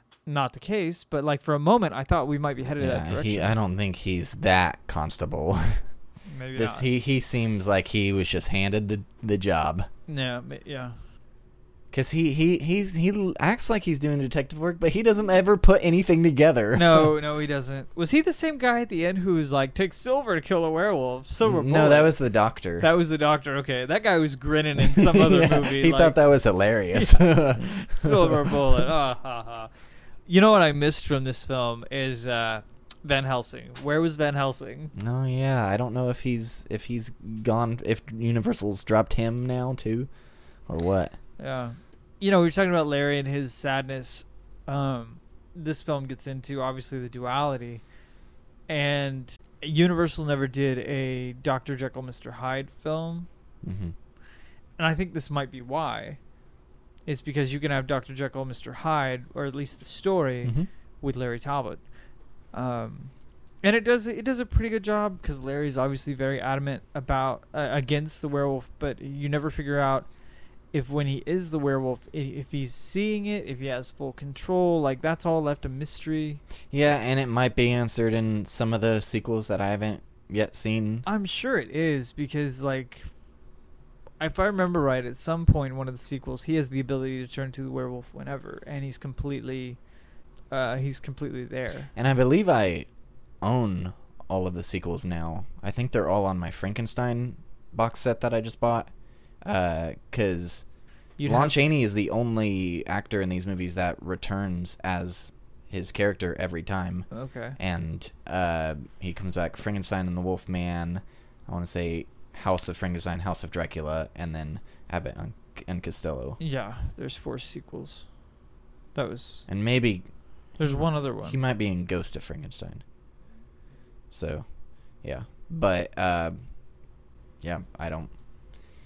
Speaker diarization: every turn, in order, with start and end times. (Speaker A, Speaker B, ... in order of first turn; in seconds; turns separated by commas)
Speaker A: 0.2-3.6, Speaker B: 2.8-5.8, Speaker A: 6.3-6.9, Speaker B: 6.5-9.9, Speaker A: 10.1-11.0, Speaker B: 11.9-17.1, Speaker A: 16.7-22.2, Speaker B: 21.4-22.9, Speaker A: 22.8-26.2, Speaker B: 24.8-28.6, Speaker A: 26.9-29.7, Speaker A: 30.3-34.9, Speaker B: 35.0-40.1, Speaker B: 40.7-41.2, Speaker A: 41.4-47.8, Speaker A: 48.7-53.3, Speaker B: 53.6-53.9, Speaker A: 54.8-56.2, Speaker A: 57.1-61.8, Speaker B: 60.4-60.7, Speaker A: 62.5-70.1, Speaker A: 70.7-76.4, Speaker B: 76.7-81.0, Speaker A: 81.0-83.1, Speaker A: 84.2-89.8, Speaker A: 90.5-91.9, Speaker B: 92.0-92.9, Speaker B: 93.4-98.9, Speaker B: 99.4-100.7, Speaker A: 101.2-101.7, Speaker B: 101.2-116.4, Speaker A: 107.1-107.6, Speaker A: 116.4-118.1, Speaker A: 119.0-119.5, Speaker B: 119.5-120.1, Speaker A: 120.6-121.4, Speaker B: 120.7-122.8, Speaker B: 124.1-124.5, Speaker B: 125.0-126.4, Speaker B: 127.4-128.1